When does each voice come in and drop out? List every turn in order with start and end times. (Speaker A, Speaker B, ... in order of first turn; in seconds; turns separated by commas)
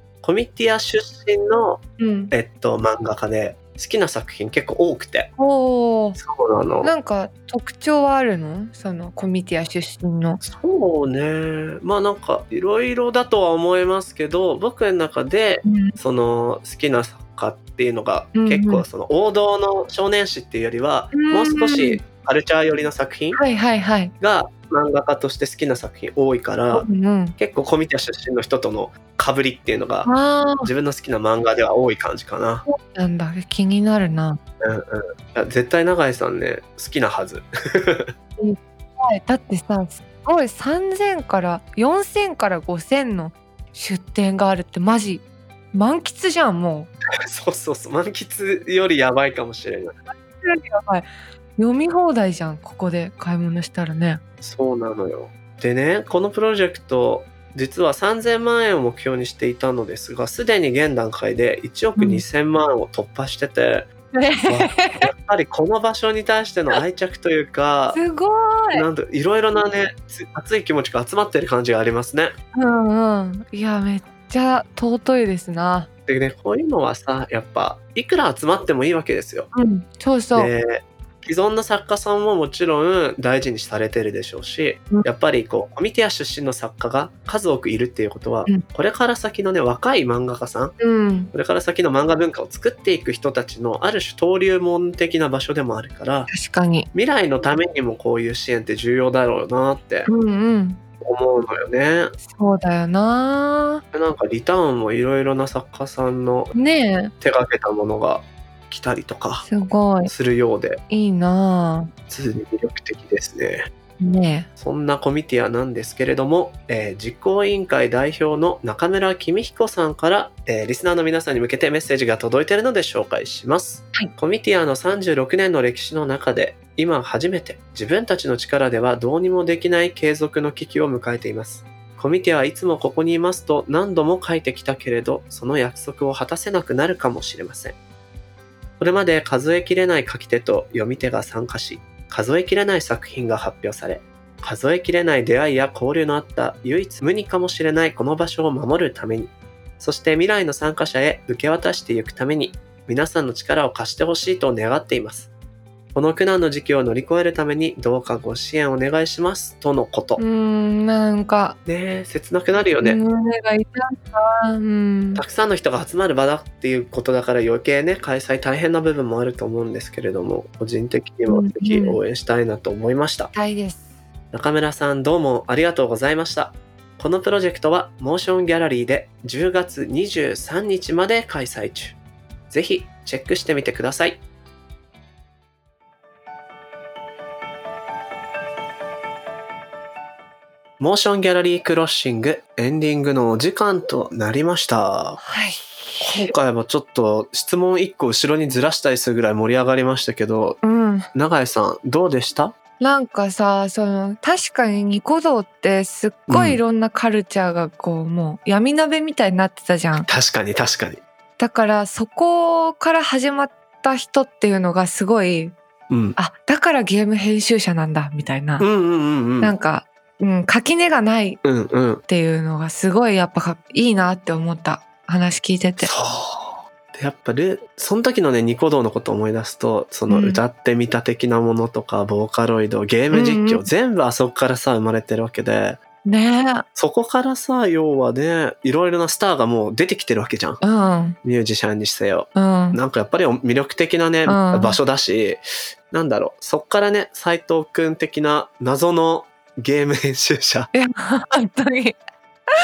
Speaker A: 0.2-5.3, Speaker B: 2.0-2.3, Speaker B: 5.4-6.2, Speaker A: 6.2-6.9, Speaker B: 6.8-10.4, Speaker A: 10.4-23.4, Speaker B: 15.6-15.9, Speaker B: 18.3-18.9, Speaker B: 21.1-22.0, Speaker B: 23.3-24.1, Speaker A: 24.2-32.6, Speaker B: 26.7-27.4, Speaker B: 30.1-30.7, Speaker B: 32.7-34.4, Speaker A: 34.6-38.1, Speaker B: 38.4-46.9, Speaker A: 47.2-50.0, Speaker B: 50.1-54.2, Speaker A: 54.4-63.9, Speaker B: 62.0-62.2, Speaker B: 64.1-65.1, Speaker A: 64.5-68.0, Speaker B: 67.9-68.8, Speaker A: 68.7-72.3, Speaker B: 72.5-75.9, Speaker A: 76.1-79.5, Speaker B: 79.5-80.5, Speaker A: 80.3-90.8, Speaker B: 90.8-91.3, Speaker A: 91.3-96.3, Speaker B: 96.3-96.9, Speaker A: 96.9-100.1, Speaker B: 100.1-100.8, Speaker A: 101.0-102.1, Speaker B: 102.2-103.8, Speaker A: 103.9-106.5, Speaker B: 106.5-107.1, Speaker A: 107.2-109.5, Speaker B: 109.4-110.1, Speaker A: 110.0-110.8, Speaker B: 110.9-111.9, Speaker A: 112.1-113.7, Speaker B: 114.0-114.5, Speaker A: 114.6-137.8, Speaker A: 138.8-155.3, Speaker A: 155.9-160.2, Speaker B: 160.2-161.6, Speaker A: 161.7-163.0, Speaker B: 162.8-165.2, Speaker A: 165.2-173.3, Speaker B: 171.3-172.0, Speaker B: 173.3-173.9, Speaker A: 174.3-182.0, Speaker A: 182.5-184.2, Speaker A: 190.8-195.2, Speaker B: 195.2-196.3, Speaker A: 196.0-200.6, Speaker B: 200.6-201.1, Speaker A: 201.1-202.5, Speaker B: 202.8-210.1, Speaker A: 206.3-206.6, Speaker A: 210.0-211.0, Speaker B: 211.4-215.6, Speaker A: 215.9-216.2, Speaker B: 216.2-218.7, Speaker A: 218.6-219.5, Speaker B: 219.4-221.4, Speaker A: 221.4-222.0, Speaker B: 222.1-225.9, Speaker A: 225.8-235.8, Speaker B: 230.1-230.4, Speaker B: 233.1-233.7, Speaker B: 236.0-236.6, Speaker A: 236.8-240.6, Speaker B: 240.6-241.2, Speaker A: 241.2-250.7, Speaker B: 242.3-242.8, Speaker B: 244.2-244.8, Speaker B: 250.7-252.0